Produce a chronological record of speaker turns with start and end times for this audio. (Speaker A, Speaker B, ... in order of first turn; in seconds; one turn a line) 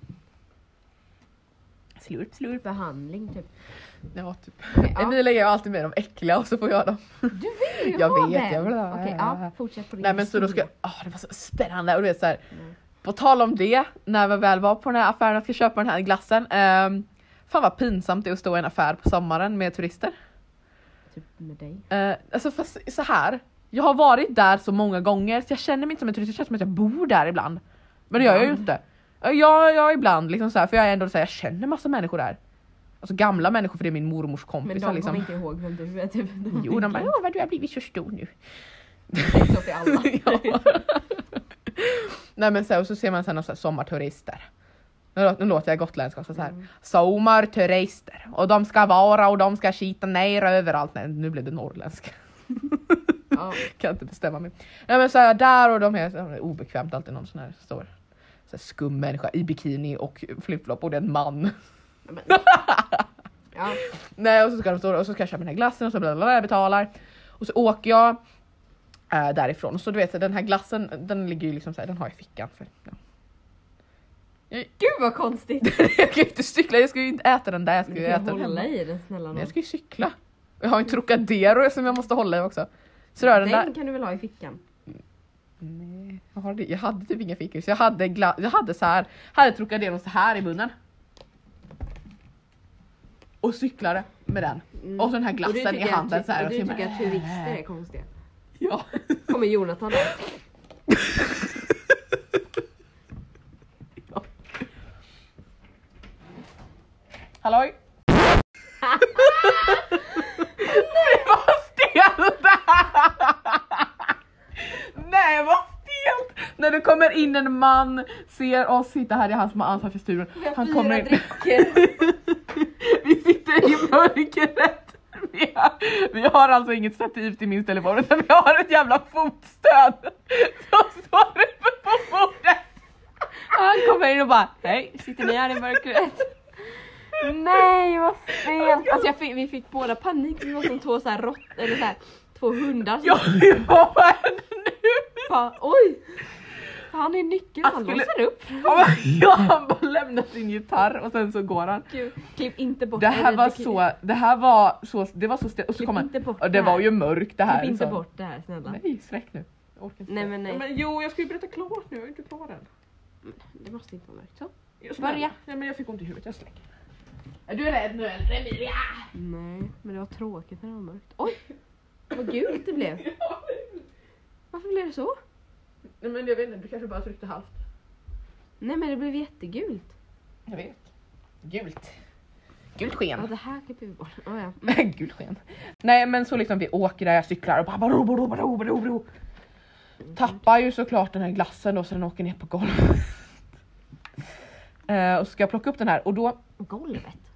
Speaker A: 2.0-2.6
Speaker B: 2.6-3.5
Speaker A: 4.1-9.5
Speaker B: 4.7-5.2
Speaker B: 7.3-10.7
Speaker A: 10.0-12.4
Speaker A: 13.0-20.1
Speaker B: 21.1-21.9
Speaker A: 21.9-32.4
Speaker B: 28.2-28.6
Speaker A: 33.0-35.3
Speaker B: 34.6-37.1
Speaker A: 36.5-38.3
Speaker A: 39.1-44.5
Speaker B: 39.2-40.7
Speaker A: 45.1-57.9
Speaker B: 53.3-53.6
Speaker A: 58.5-61.5
Speaker B: 62.1-62.5
Speaker A: 62.3-63.1
Speaker B: 63.5-63.8
Speaker A: 63.9-68.2
Speaker A: 69.1-73.0
Speaker B: 74.5-75.7
Speaker A: 75.6-78.7
Speaker B: 77.9-79.5
Speaker A: 79.3-83.7
Speaker B: 83.2-84.6
Speaker A: 85.6-90.7
Speaker A: 93.4-97.6
Speaker B: 94.8-98.1
Speaker A: 98.6-99.4
Speaker B: 99.3-100.2
Speaker A: 100.9-102.0
Speaker A: 107.4-107.8
Speaker A: 109.0-132.6
Speaker B: 109.2-110.0
Speaker B: 110.6-111.1
Speaker B: 120.4-121.9
Speaker B: 133.5-134.0
Speaker A: 133.5-135.6
Speaker B: 134.7-136.3
Speaker B: 137.1-143.3
Speaker A: 138.6-139.1
Speaker A: 143.0-145.3
Speaker B: 145.3-146.2
Speaker B: 146.9-148.9
Speaker A: 147.6-151.9
Speaker B: 151.9-153.8
Speaker A: 153.0-158.0
Speaker B: 155.8-156.9
Speaker B: 157.4-158.8
Speaker A: 158.7-162.7
Speaker B: 160.1-160.6
Speaker B: 163.2-165.3
Speaker A: 164.8-166.6
Speaker A: 167.5-169.1
Speaker B: 169.1-171.4
Speaker B: 172.1-173.1
Speaker A: 172.2-173.9
Speaker B: 174.5-175.2
Speaker A: 176.0-177.6
Speaker B: 178.6-179.9
Speaker A: 180.5-180.8
Speaker A: 181.4-181.9
Speaker A: 182.8-183.3
Speaker B: 183.2-184.8
Speaker A: 184.6-189.1
Speaker A: 190.1-193.3
Speaker A: 194.9-196.4
Speaker B: 196.6-197.2